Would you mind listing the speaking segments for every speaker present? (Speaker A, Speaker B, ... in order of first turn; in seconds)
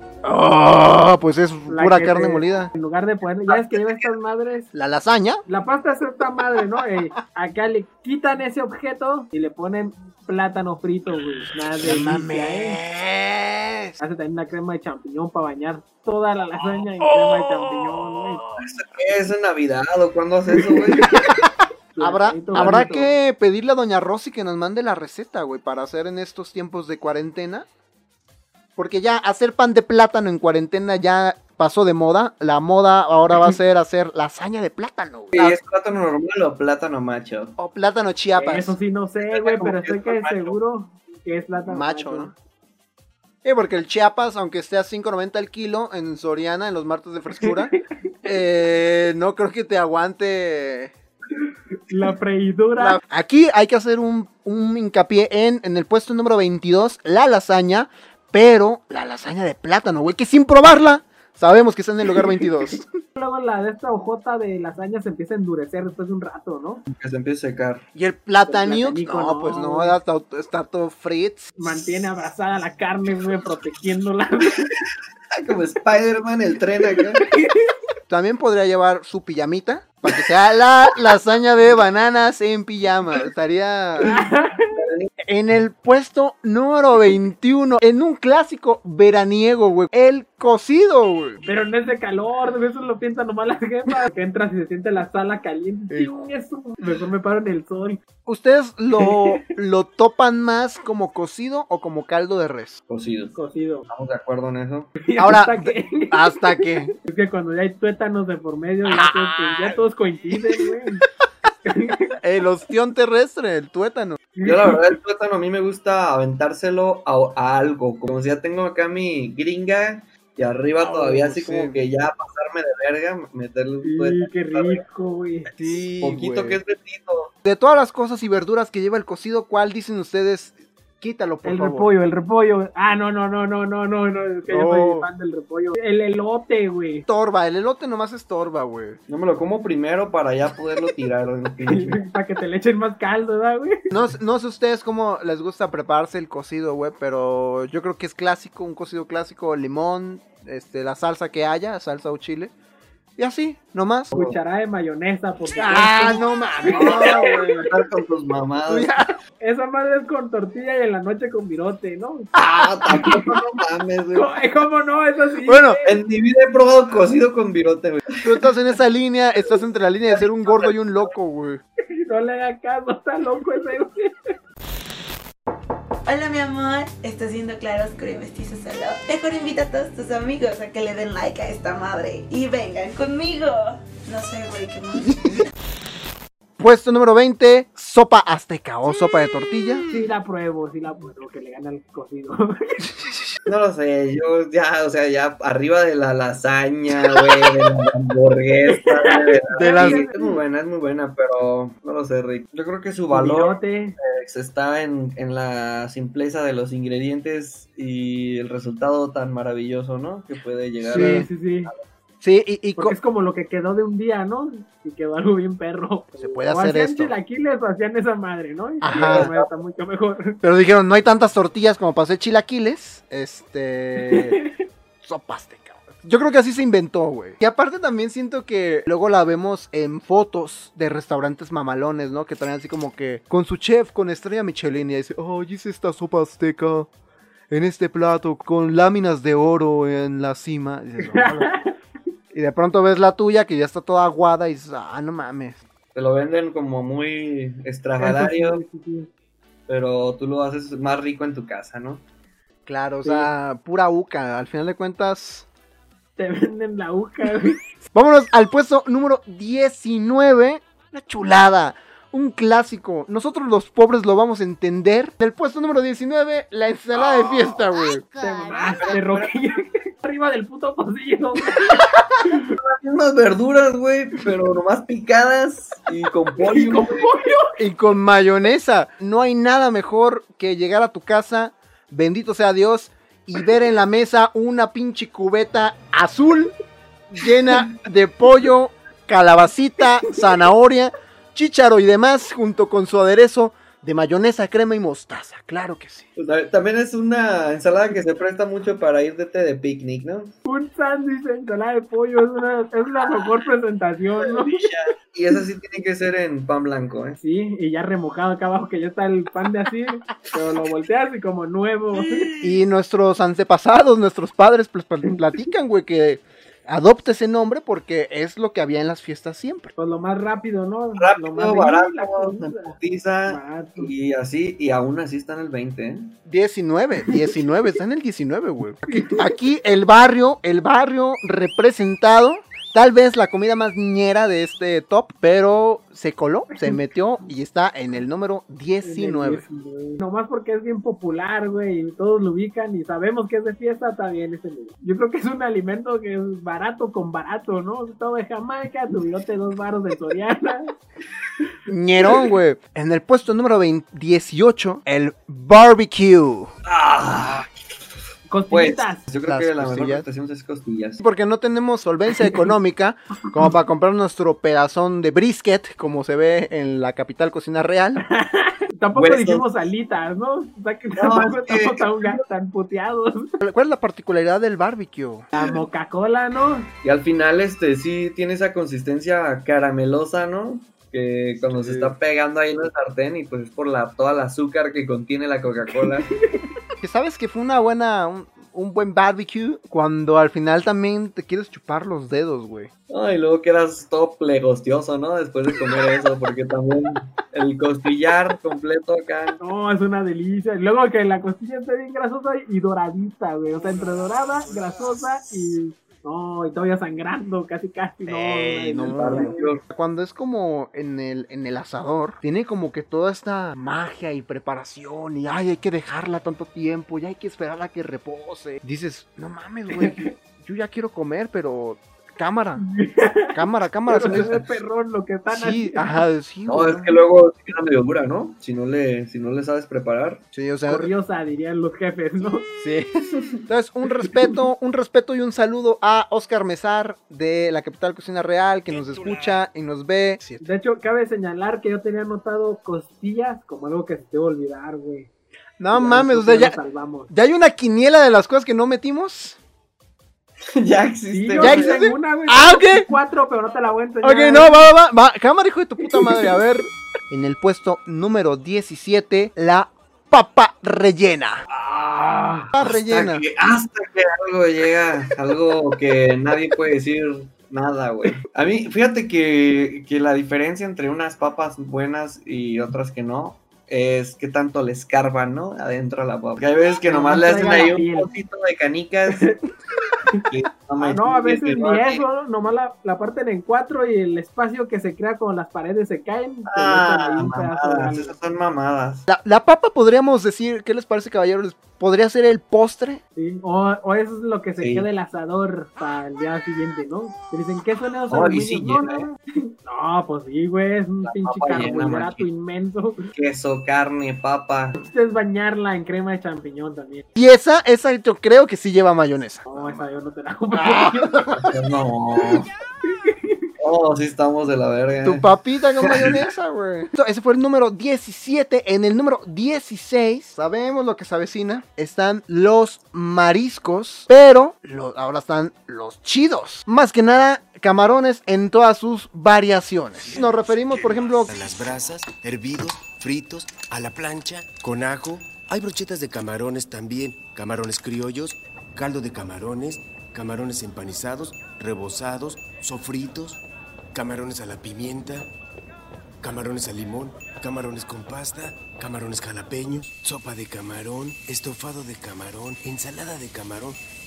Speaker A: 0.2-2.7, 3.5-3.8, 4.7-5.4, 11.8-14.0, 17.0-17.8, 21.1-27.7, 28.8-35.6, 37.6-38.8, 41.6-42.3, 43.4-47.7, 48.2-50.9, 52.8-62.9, 67.9-71.5, 78.1-84.1, 85.2-91.4, 95.9-96.3, 98.2-102.8, 105.2-106.9, 108.8-109.8, 110.3-110.6, 112.2-114.2, 120.8-121.8, 125.6-126.6, 127.5-131.9, 134.5-135.1, 137.1-139.0, 143.9-152.5, 153.2-154.1, 155.6-157.7, 158.7-159.1, 162.3-162.7, 165.4-165.8, 168.2-171.6, 186.6-189.8, 199.6-200.4, 210.8-211.2, 212.2-212.9, 216.2-217.1, 218.8-219.3, 220.4-224.4, 225.0-236.9, 237.5-241.5, 242.3-245.6, 252.7-255.4, 257.9-268.1, 277.6-286.5, 287.1-296.1, 312.4-319.7, 326.2-339.4, 351.7-356.5, 359.2-360.1, 361.0-368.0, 373.4-375.2, 381.4-381.9, 386.8-392.7, 408.1-422.6, 423.3-424.6, 425.3-426.9, 430.3-430.9, 432.6-440.4, 445.6-446.6, 447.1-449.4, 451.4-452.9, 454.0-461.4, 462.5-463.2, 489.1-493.0, 507.1-509.8, 510.5-511.5, 515.0-531.4
Speaker B: 1.7-4.7, 5.5-12.8, 14.0-18.4, 21.0-21.4, 21.9-23.1, 38.4-42.3, 47.4-47.8, 51.9-53.0, 63.1-66.8, 68.5-70.0, 71.6-74.7, 77.3-77.7, 84.0-84.7, 91.4-98.0, 99.0-99.4, 103.3-103.9, 105.0-111.0, 111.6-112.1, 114.4-114.8, 123.8-125.5, 131.4-137.1, 141.7-143.8, 154.1-157.7, 159.4-162.3, 164.1-166.0, 171.9-174.1, 189.9-192.8, 198.7-200.1, 203.1-203.9, 210.9-211.7, 212.8-220.4, 224.0-224.5, 241.0-241.7, 248.0-249.1, 253.0-253.3, 256.2-257.6, 268.2-272.4, 276.4-277.5, 300.4-304.7, 307.2-312.3, 319.8-322.8, 323.3-323.9, 328.9-329.3, 338.8-350.7, 358.3-359.0, 368.0-373.3, 375.3-376.7, 385.7-386.5, 399.4-409.5, 419.7-420.1, 422.6-423.3, 423.9-426.0, 430.7-432.5, 440.4-445.1, 445.7-447.1, 451.1-454.6, 476.8-478.1, 479.1-479.4, 480.8-488.1, 493.1-503.1, 504.7-507.1, 509.5-511.1, 512.9-513.5
Speaker C: 18.6-21.2, 22.5-22.9, 35.3-37.5, 39.2-40.6, 66.9-67.8, 75.3-77.2, 84.7-85.1, 102.9-103.4, 103.9-104.9, 114.4-124.8, 126.0-127.3, 139.1-142.0, 154.1-154.4, 156.8-158.9, 162.5-164.3, 165.8-168.4, 170.4-170.7, 193.4-211.8, 219.0-219.5, 245.9-248.6, 249.7-252.0, 268.5-269.4, 272.6-277.1, 296.2-300.3, 304.3-307.2, 321.0-326.1, 356.6-357.5, 358.5-361.0, 368.9-369.5, 370.9-372.2, 376.8-386.1, 392.9-399.4, 408.9-409.6, 426.5-430.2, 450.5-451.8, 461.5-479.3, 480.3-482.0, 486.5-489.1, 494.6-494.9, 498.1-499.1, 501.0-502.3, 503.1-504.7, 511.3-512.5, 513.6-515.3, 515.8-516.2
Speaker D: 176.1-185.3
Speaker E: 530.0-543.4, 543.9-545.3, 546.2-553.8